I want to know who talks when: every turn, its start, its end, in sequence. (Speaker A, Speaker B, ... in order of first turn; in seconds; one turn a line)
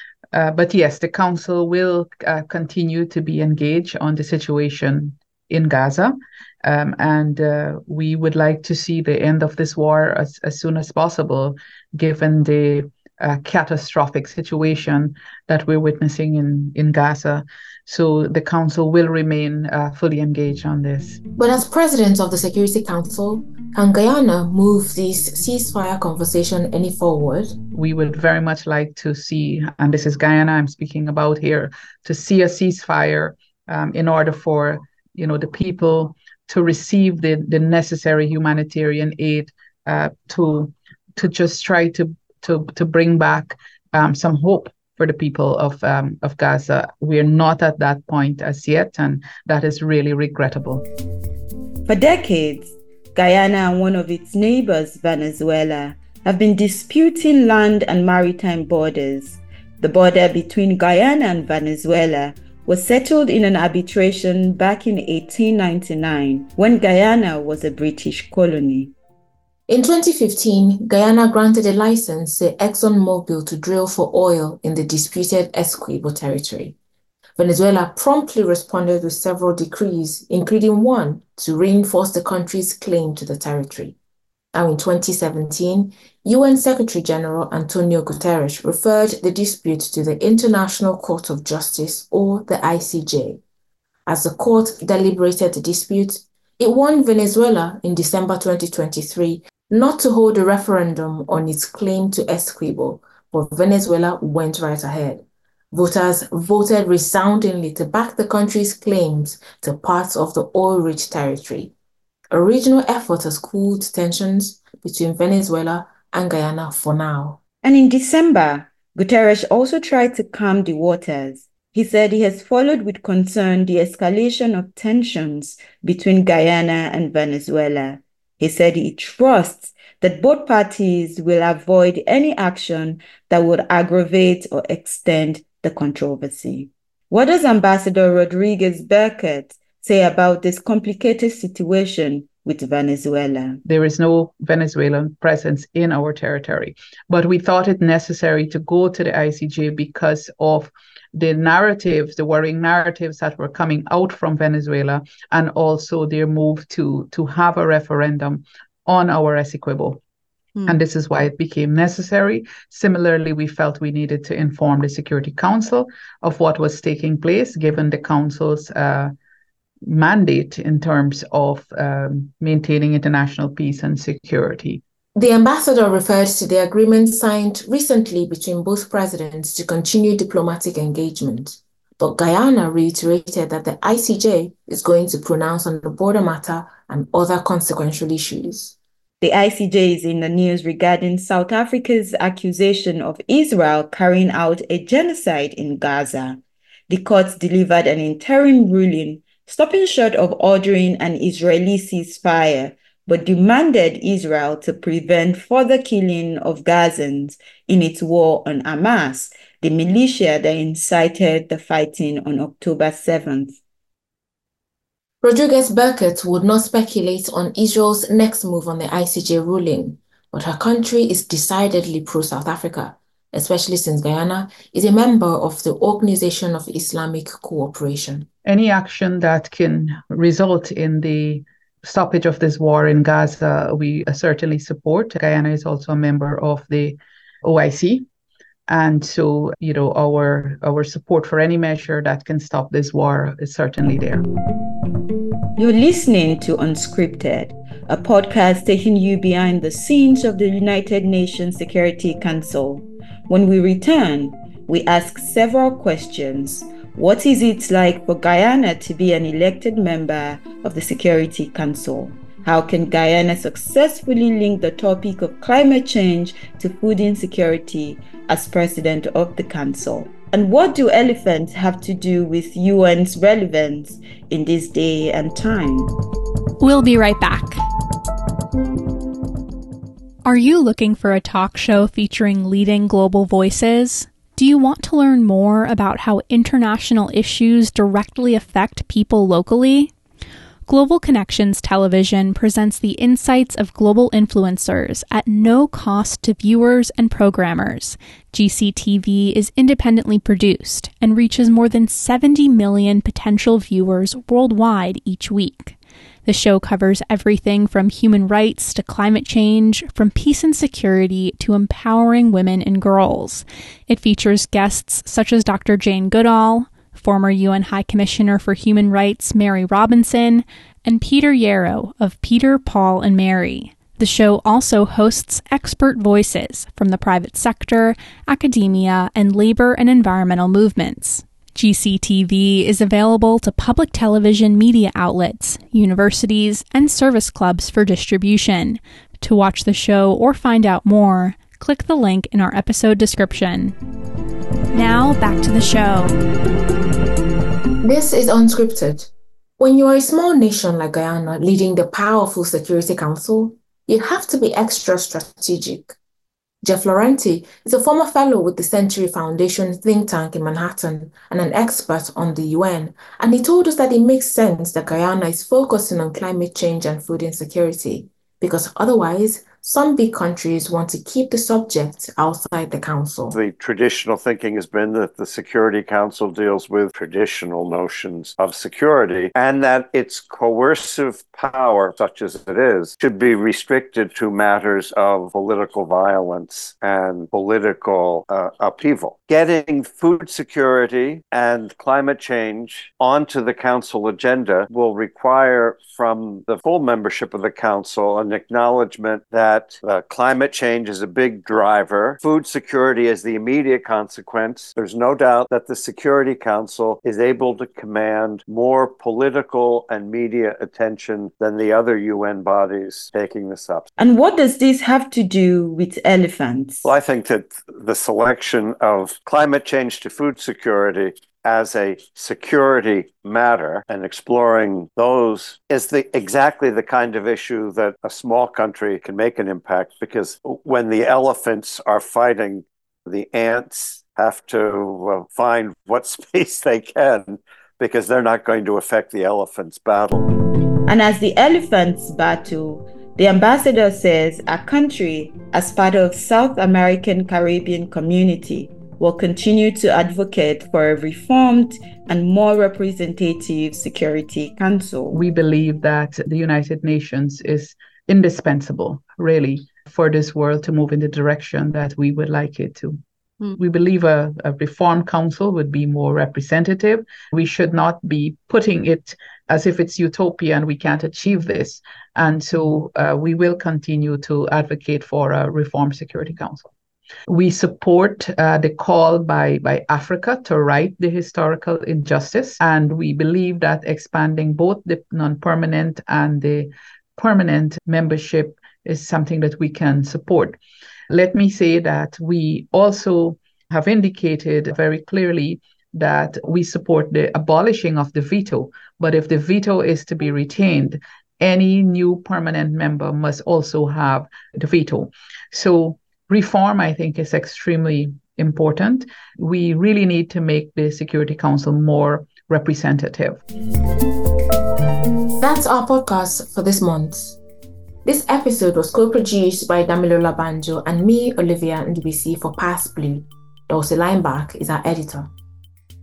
Speaker A: 0.3-21.2
Speaker B: 21.4-27.5
Speaker A: 27.7-50.8
Speaker C: 51.9-68.9
Speaker B: 69.7-76.8
Speaker B: 77.4-84.0
Speaker B: 84.5-93.4
Speaker B: 94.1-111.7
Speaker B: 112.3-117.4
Speaker C: 117.6-143.6
Speaker A: 143.7-160.0
Speaker A: 160.7-169.1
Speaker A: 169.8-174.8
Speaker B: 175.2-188.8
Speaker C: 189.2-213.6
Speaker B: 215.2-228.3
Speaker A: 228.4-238.1
Speaker A: 238.7-244.2
Speaker C: 245.6-275.9
Speaker D: 276.6-277.6
Speaker D: 280.2-289.9
Speaker D: 290.7-343.8
Speaker D: 344.7-346.1
Speaker B: 347.8-356.0
Speaker B: 356.6-373.4
Speaker E: 373.3-413.9
Speaker C: 414.0-416.9
Speaker E: 416.9-440.3
Speaker C: 440.9-455.2
Speaker A: 455.1-463.0
Speaker A: 463.6-476.7
Speaker A: 477.3-490.6
Speaker A: 491.1-513.4
Speaker B: 515.4-517.4
Speaker B: 518.0-525.3